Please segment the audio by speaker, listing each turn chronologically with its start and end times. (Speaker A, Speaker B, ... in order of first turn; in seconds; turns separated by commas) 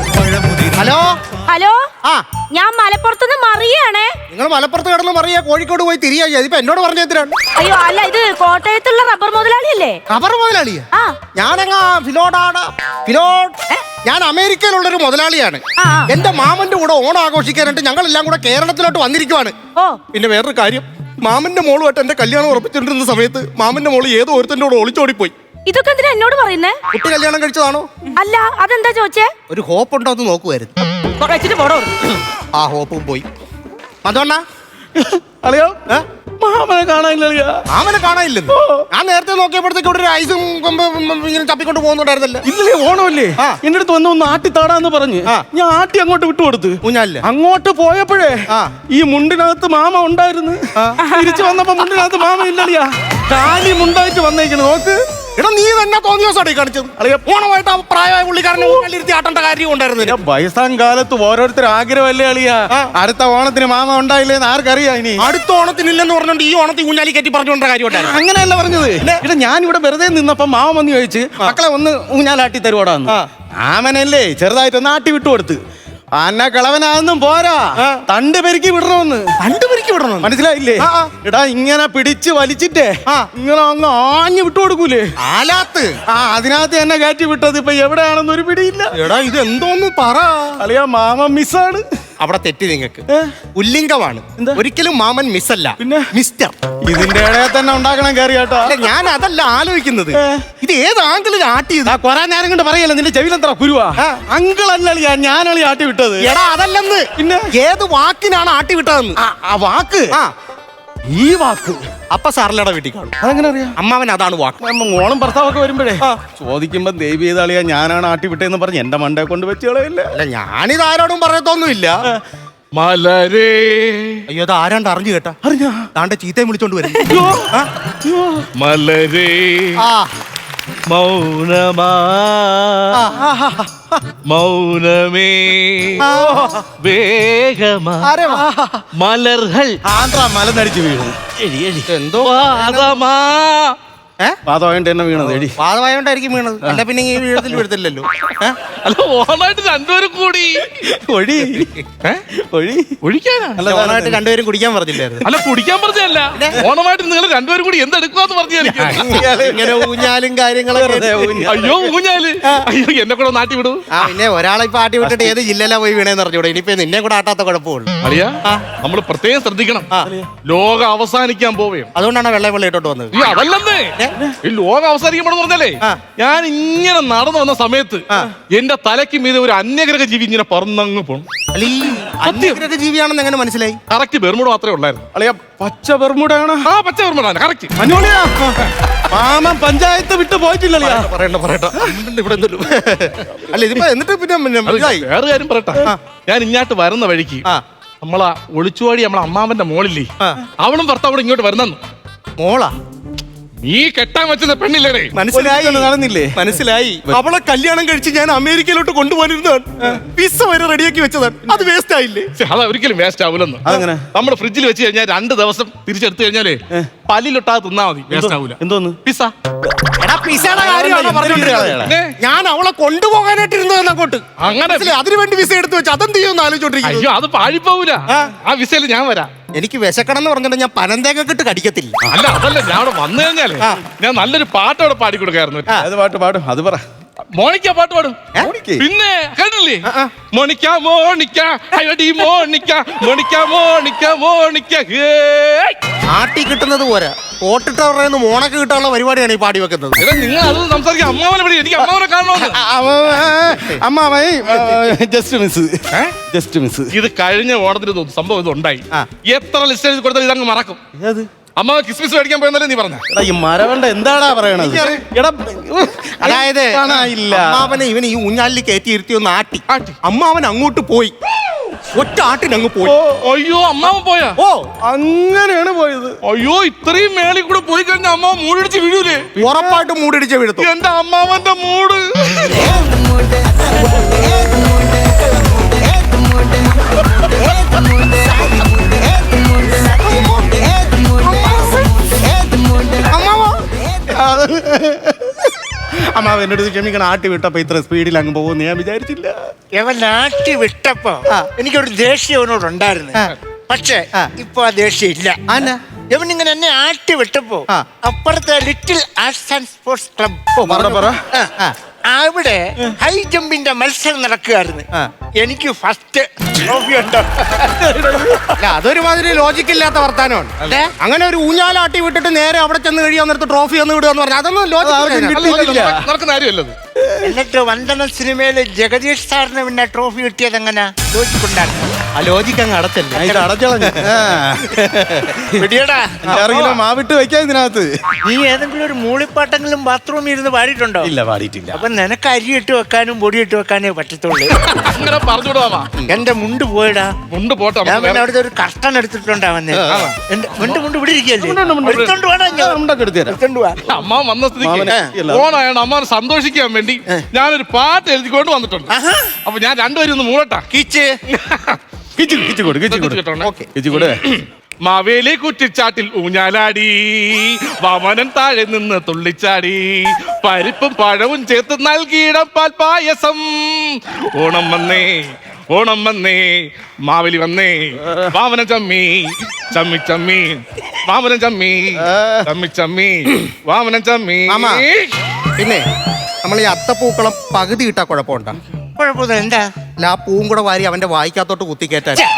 Speaker A: 0.4-0.7, Speaker B: 0.7-1.2, Speaker C: 1.5-1.8, Speaker C: 2.5-4.2, Speaker B: 4.3-7.4, Speaker C: 7.6-10.0, Speaker B: 10.1-19.6, Speaker C: 15.8-16.1, Speaker B: 20.1-25.3, Speaker C: 25.7-26.8, Speaker B: 26.9-27.9, Speaker C: 28.2-29.3, Speaker B: 29.5-30.8, Speaker C: 31.2-32.2, Speaker B: 32.6-33.3, Speaker B: 34.0-34.4, Speaker A: 35.0-35.8, Speaker A: 36.4-37.6, Speaker B: 37.7-42.5, Speaker A: 38.5-38.9, Speaker A: 42.5-55.0, Speaker B: 46.8-47.2, Speaker B: 50.8-51.0, Speaker B: 55.4-60.2, Speaker A: 57.0-57.2, Speaker A: 60.0-65.3, Speaker B: 65.2-68.2, Speaker A: 67.9-75.6, Speaker A: 76.2-79.2, Speaker B: 77.8-78.0, Speaker B: 79.4-80.3, Speaker A: 80.2-85.1, Speaker B: 80.8-81.1, Speaker B: 85.2-85.9, Speaker A: 86.1-89.0, Speaker B: 88.9-90.6, Speaker A: 90.6-91.8, Speaker B: 92.2-93.0, Speaker A: 93.1-93.4, Speaker B: 93.6-96.6, Speaker A: 95.8-96.1, Speaker A: 96.8-98.8, Speaker B: 98.6-102.0, Speaker A: 100.1-100.5, Speaker A: 101.9-106.3, Speaker B: 106.2-109.2, Speaker A: 107.2-107.5, Speaker A: 109.2-110.1, Speaker A: 111.1-111.9, Speaker B: 112.1-113.2, Speaker A: 113.2-113.8, Speaker B: 113.8-114.6, Speaker A: 114.6-120.1, Speaker B: 120.1-122.0, Speaker D: 122.8-124.3, Speaker B: 124.3-125.4, Speaker A: 125.5-125.9, Speaker B: 126.0-127.7, Speaker A: 127.0-127.5, Speaker A: 128.1-128.4, Speaker D: 128.6-129.8, Speaker B: 129.8-130.1, Speaker D: 130.9-132.9, Speaker B: 132.9-134.0, Speaker D: 134.3-136.1, Speaker B: 136.0-136.7, Speaker D: 136.8-138.2, Speaker B: 138.0-138.8, Speaker D: 138.9-139.8, Speaker A: 139.9-141.8, Speaker B: 141.9-143.0, Speaker D: 142.2-143.8, Speaker A: 144.5-145.6, Speaker B: 145.6-148.6, Speaker D: 148.7-150.7, Speaker A: 150.8-151.8, Speaker A: 152.3-152.9, Speaker D: 153.0-153.6, Speaker A: 153.6-154.2, Speaker B: 153.6-155.2, Speaker D: 155.2-159.2, Speaker B: 156.4-156.7, Speaker A: 158.6-160.1, Speaker B: 158.8-161.5, Speaker A: 160.7-161.9, Speaker D: 161.5-163.9, Speaker B: 163.9-168.7, Speaker A: 165.0-165.3, Speaker D: 168.0-169.9, Speaker A: 170.0-170.3, Speaker D: 170.4-171.9, Speaker B: 171.9-173.2, Speaker D: 173.1-181.3, Speaker B: 181.5-183.8, Speaker D: 182.2-182.6, Speaker D: 183.9-185.1, Speaker A: 185.2-186.7, Speaker D: 186.7-187.7, Speaker A: 187.8-191.1, Speaker B: 190.8-195.1, Speaker D: 194.7-197.4, Speaker D: 198.0-201.8, Speaker B: 202.4-202.7, Speaker D: 203.7-205.2, Speaker B: 205.1-212.3, Speaker A: 205.3-206.5, Speaker D: 212.4-219.3, Speaker A: 213.7-214.1, Speaker A: 218.1-219.0, Speaker B: 220.0-227.1, Speaker A: 220.4-221.9, Speaker D: 221.5-222.2, Speaker D: 224.4-225.0, Speaker D: 226.8-229.3, Speaker B: 229.6-232.0, Speaker D: 232.1-235.7, Speaker A: 235.8-236.8, Speaker D: 237.4-245.8, Speaker A: 238.4-238.9, Speaker B: 239.9-240.1, Speaker B: 246.1-250.0, Speaker D: 250.0-252.6, Speaker B: 252.4-253.8, Speaker A: 253.2-256.9, Speaker D: 256.9-260.8, Speaker A: 261.0-261.3, Speaker D: 261.6-263.1, Speaker A: 263.1-267.7, Speaker B: 264.6-265.0, Speaker B: 266.2-271.1, Speaker D: 269.7-269.9, Speaker B: 271.9-273.0, Speaker A: 272.9-273.2, Speaker D: 273.2-274.4, Speaker B: 274.4-274.6, Speaker A: 274.9-276.2, Speaker D: 276.3-279.3, Speaker B: 279.4-280.7, Speaker D: 280.6-282.7, Speaker B: 290.1-291.9, Speaker B: 293.0-295.5, Speaker B: 296.2-299.3, Speaker A: 298.8-299.1, Speaker E: 299.8-303.2, Speaker E: 303.7-305.4, Speaker B: 305.5-305.8, Speaker E: 306.1-310.6, Speaker B: 310.6-311.8, Speaker A: 310.7-311.2, Speaker E: 312.1-318.1, Speaker A: 317.8-318.5, Speaker B: 318.6-325.9, Speaker E: 320.6-320.9, Speaker A: 324.8-326.1, Speaker D: 325.3-326.8, Speaker E: 327.2-331.9, Speaker B: 332.2-333.3, Speaker A: 333.1-335.7, Speaker E: 333.2-333.5, Speaker B: 333.8-334.2, Speaker E: 335.6-336.2, Speaker A: 336.3-337.9, Speaker B: 336.3-336.8, Speaker E: 338.2-341.1, Speaker A: 341.0-341.8, Speaker E: 341.7-344.6, Speaker D: 344.5-345.9, Speaker E: 346.1-347.1, Speaker D: 347.3-348.2, Speaker E: 347.9-353.9, Speaker B: 349.8-350.1, Speaker D: 349.9-350.8, Speaker A: 351.4-353.4, Speaker D: 353.9-358.9, Speaker A: 354.6-355.5, Speaker E: 358.9-359.3, Speaker D: 359.5-360.7, Speaker E: 360.7-361.2, Speaker D: 361.3-361.8, Speaker A: 362.2-364.2, Speaker D: 362.9-385.1, Speaker B: 363.4-363.7, Speaker A: 378.1-378.3, Speaker A: 382.0-382.5, Speaker B: 384.5-384.9, Speaker B: 385.6-385.8, Speaker B: 386.4-388.6, Speaker E: 389.0-389.7, Speaker B: 390.0-392.2